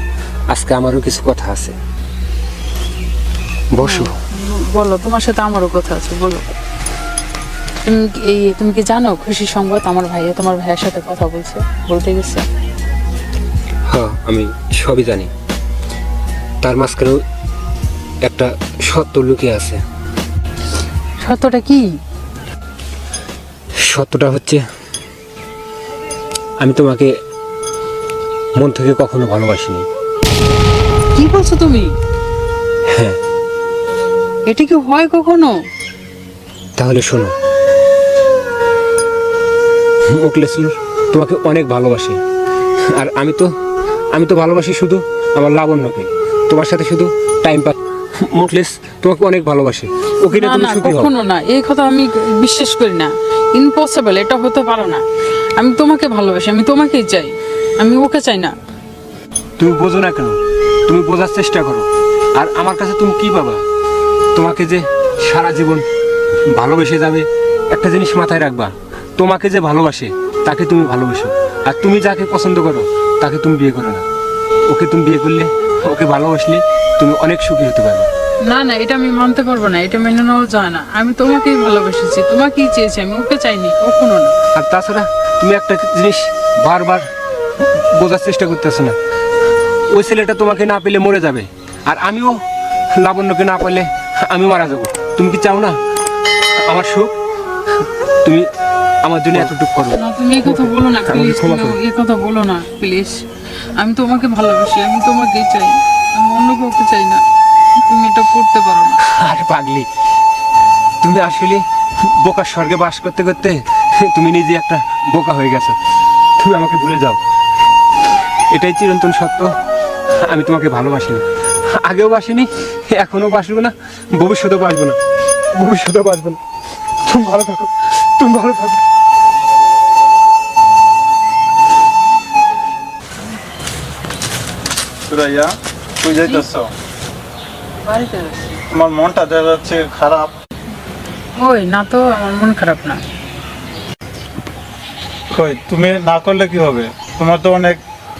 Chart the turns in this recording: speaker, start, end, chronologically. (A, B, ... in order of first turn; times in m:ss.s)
0:00.5-0:01.8 A
0:03.7-0:04.2 A
0:03.8-0:06.4 B
0:07.8-0:12.4 B
0:13.9-0:15.3 A
0:16.6-0:17.2 A
0:18.2-0:19.8 A
0:21.2-0:21.9 B
0:23.8-0:24.6 A
0:26.6-0:27.1 A
0:28.6-0:29.8 A
0:31.1-0:31.9 B
0:32.9-0:33.2 A
0:34.5-0:35.5 B
0:36.8-0:37.3 A
0:40.1-0:42.2 A
0:42.9-0:43.5 A
0:44.1-0:51.1 A
0:50.3-0:55.0 B
0:55.6-0:58.5 B
0:59.6-1:03.6 A
1:04.3-1:05.8 A
1:06.4-1:14.0 A
1:14.6-1:18.1 A
1:18.4-1:24.3 B
1:24.5-1:27.0 A
1:27.6-1:29.0 A
1:29.9-1:32.4 A
1:32.9-1:35.8 A
1:36.6-1:37.2 A
1:38.2-1:38.5 A
1:39.0-1:41.8 A
1:39.9-1:43.2 B
1:43.8-1:47.2 B
1:47.7-1:49.0 B
1:49.0-1:49.9 A
1:51.0-1:55.8 A
1:56.4-1:57.2 A
1:58.5-1:59.5 A
2:00.2-2:05.0 A
2:05.5-2:06.4 A
2:07.0-2:08.8 A
2:15.1-2:16.7 C
2:17.8-2:18.6 B
2:18.7-2:20.3 C
2:21.4-2:23.0 B
2:25.3-2:27.8 C